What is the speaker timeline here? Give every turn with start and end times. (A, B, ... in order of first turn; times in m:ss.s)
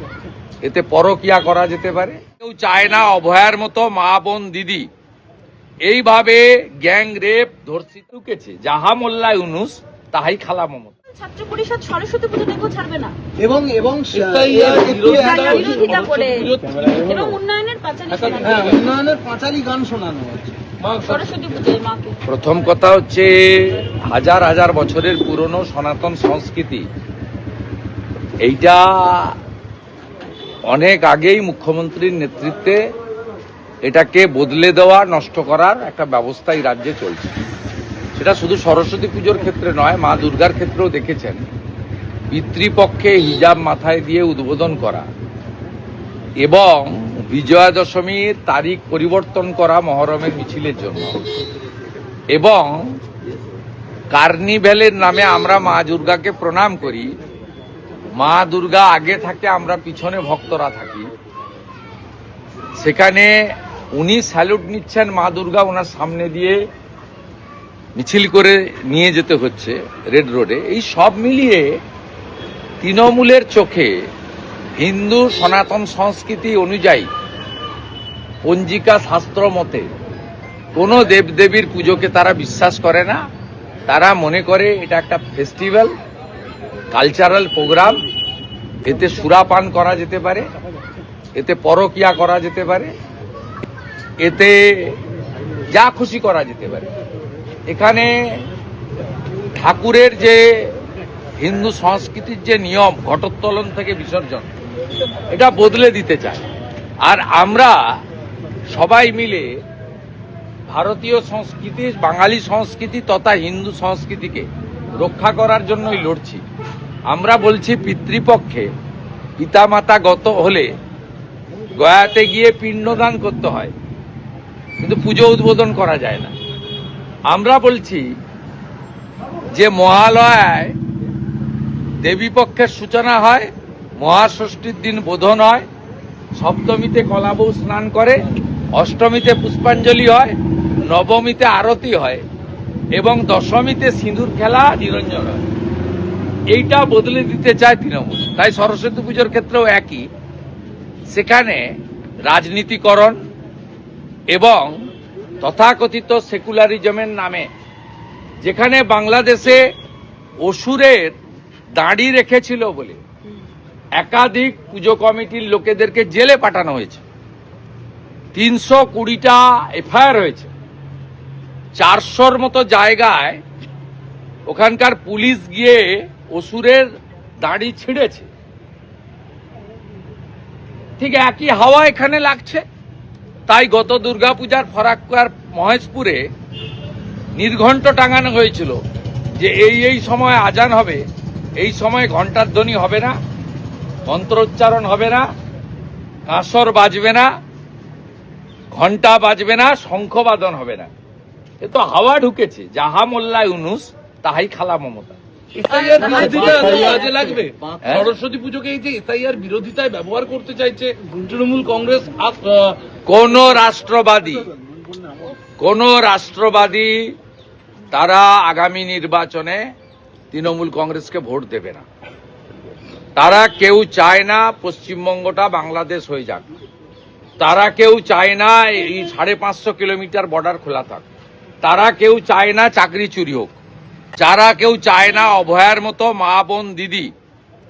0:00.6-0:04.9 A
0:05.8-0:10.9 A
0:11.1-0:13.1 B
0:13.4-0:15.9 C
0:14.1-0:17.4 D
0:15.1-0:18.7 B
0:18.2-0:18.9 D
0:18.2-0:20.6 C
0:20.8-0:21.3 D
0:21.0-0:22.2 B
0:22.2-0:26.8 A
0:28.4-0:29.3 A
0:30.7-0:32.8 A
0:33.8-0:37.3 A
0:38.2-0:41.4 A
0:42.3-0:45.1 A
0:46.4-0:51.2 A
0:52.3-0:53.0 A
0:54.1-0:57.1 A
0:58.2-1:01.1 A
1:02.8-1:06.6 A
1:08.0-1:11.7 A
1:12.8-1:13.9 A
1:14.8-1:17.1 A
1:18.4-1:19.8 A
1:20.7-1:23.2 A
1:23.9-1:25.9 A
1:26.9-1:28.0 A
1:28.8-1:30.4 A
1:31.3-1:32.9 A
1:34.2-1:35.0 A
1:35.7-1:36.8 A
1:37.7-1:38.4 A
1:39.6-1:40.7 A
1:41.4-1:44.5 A
1:45.3-1:46.4 A
1:47.0-1:47.8 A
1:48.7-1:49.5 A
1:50.7-1:54.5 A
1:55.0-1:56.4 A
1:57.1-1:58.7 A
1:59.4-2:00.7 A
2:01.7-2:03.7 A
2:04.8-2:06.3 A
2:07.3-2:08.0 A
2:09.5-2:10.7 A
2:12.0-2:15.6 A
2:16.4-2:18.2 A
2:18.7-2:22.2 A
2:23.0-2:25.4 A
2:26.5-2:30.0 A
2:31.1-2:31.7 A
2:32.2-2:33.2 A
2:34.3-2:34.8 A
2:35.4-2:37.5 A
2:38.4-2:39.6 A
2:40.4-2:41.1 A
2:41.8-2:43.0 A
2:44.0-2:47.0 A
2:48.3-2:50.5 A
2:51.8-2:53.4 A
2:54.5-2:56.9 A
2:57.4-2:58.3 A
3:01.0-3:02.6 A
3:03.5-3:06.2 A
3:07.4-3:08.8 A
3:09.4-3:11.0 A
3:11.6-3:13.2 A
3:14.1-3:15.2 A
3:16.3-3:17.3 A
3:18.7-3:20.9 A
3:21.6-3:25.2 A
3:25.5-3:32.8 D
3:25.9-3:27.1 B
3:26.0-3:26.9 C
3:27.8-3:28.1 A
3:33.0-3:34.4 A
3:35.6-3:37.1 A
3:37.9-3:39.6 A
3:40.3-3:41.8 A
3:43.2-3:46.4 A
3:47.4-3:51.0 A
3:51.6-3:53.5 A
3:54.2-3:57.1 A